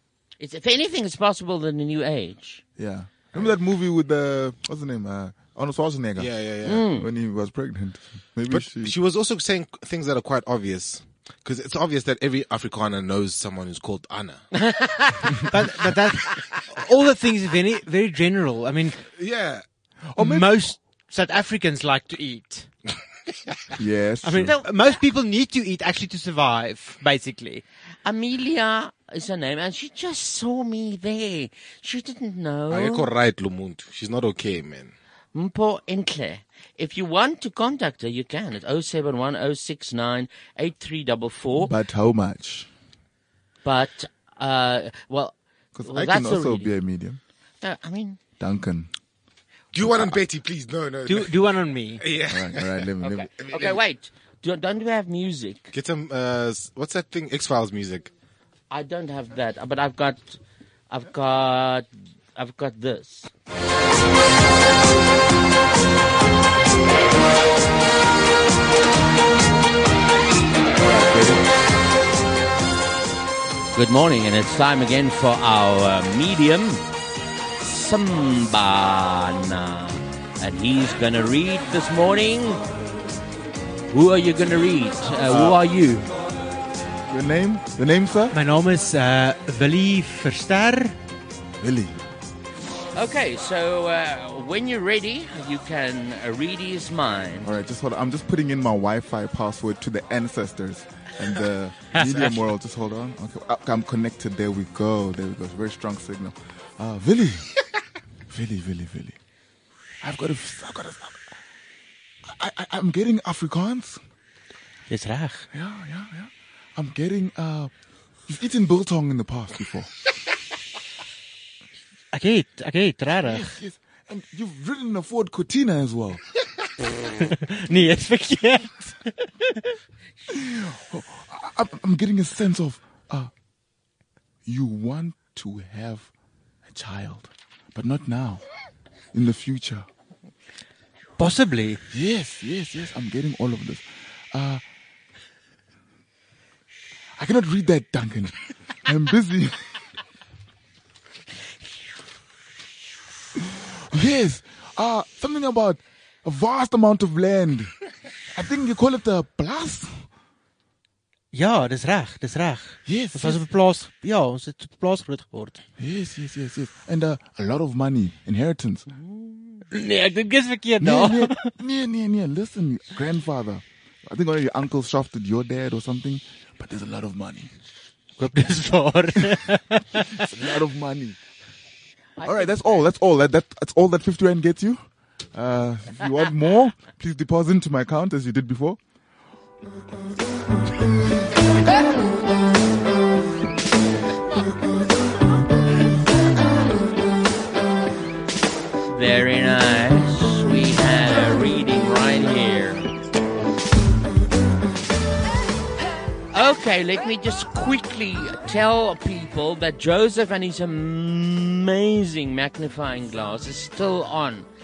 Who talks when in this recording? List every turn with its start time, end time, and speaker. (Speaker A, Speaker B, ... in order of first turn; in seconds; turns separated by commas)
Speaker A: 0.4-2.6, Speaker B: 2.8-8.9, Speaker C: 6.2-6.8, Speaker A: 6.6-7.0, Speaker C: 8.5-14.4, Speaker A: 14.5-15.3, Speaker D: 15.5-19.0, Speaker C: 19.2-19.6, Speaker B: 20.1-20.6, Speaker D: 20.2-22.7, Speaker B: 23.8-24.6, Speaker D: 24.2-27.6, Speaker A: 28.0-33.1, Speaker C: 32.7-34.9, Speaker A: 35.3-41.7, Speaker B: 41.5-42.7, Speaker A: 43.6-46.7, Speaker B: 45.7-47.2, Speaker A: 47.6-48.2, Speaker B: 48.4-48.9, Speaker C: 49.7-51.4, Speaker B: 49.8-50.1, Speaker D: 51.0-52.0, Speaker C: 52.0-52.8, Speaker B: 52.3-53.3, Speaker A: 53.0-55.7, Speaker C: 53.4-53.8, Speaker C: 55.7-58.1, Speaker A: 58.7-60.4, Speaker A: 60.9-63.3, Speaker B: 70.7-71.4, Speaker A: 73.7-76.8, Speaker A: 77.6-82.6, Speaker A: 83.9-86.0, Speaker B: 87.1-88.3, Speaker D: 88.3-90.9, Speaker B: 91.6-91.9, Speaker A: 92.9-97.5, Speaker B: 97.4-107.5, Speaker D: 102.0-102.4, Speaker B: 108.3-109.2, Speaker B: 110.0-111.2, Speaker B: 112.3-114.0, Speaker D: 114.9-115.4, Speaker B: 115.5-117.7, Speaker B: 118.3-119.9, Speaker D: 122.1-123.4, Speaker B: 123.2-126.2, Speaker D: 127.3-129.5, Speaker B: 130.3-133.3, Speaker B: 134.4-136.1, Speaker B: 136.7-138.4, Speaker B: 139.1-139.9, Speaker D: 141.2-141.8, Speaker B: 141.9-144.6, Speaker B: 147.2-149.6, Speaker B: 153.3-157.7, Speaker B: 158.3-160.0, Speaker D: 161.3-165.6, Speaker B: 162.8-163.4, Speaker B: 165.8-168.9, Speaker A: 168.9-169.6, Speaker D: 169.7-171.4, Speaker B: 170.8-177.5, Speaker D: 178.2-180.2, Speaker B: 180.2-181.2, Speaker A: 182.2-182.6, Speaker B: 182.2-184.8, Speaker B: 185.3-188.8, Speaker A: 198.9-202.8, Speaker A: 206.3-214.5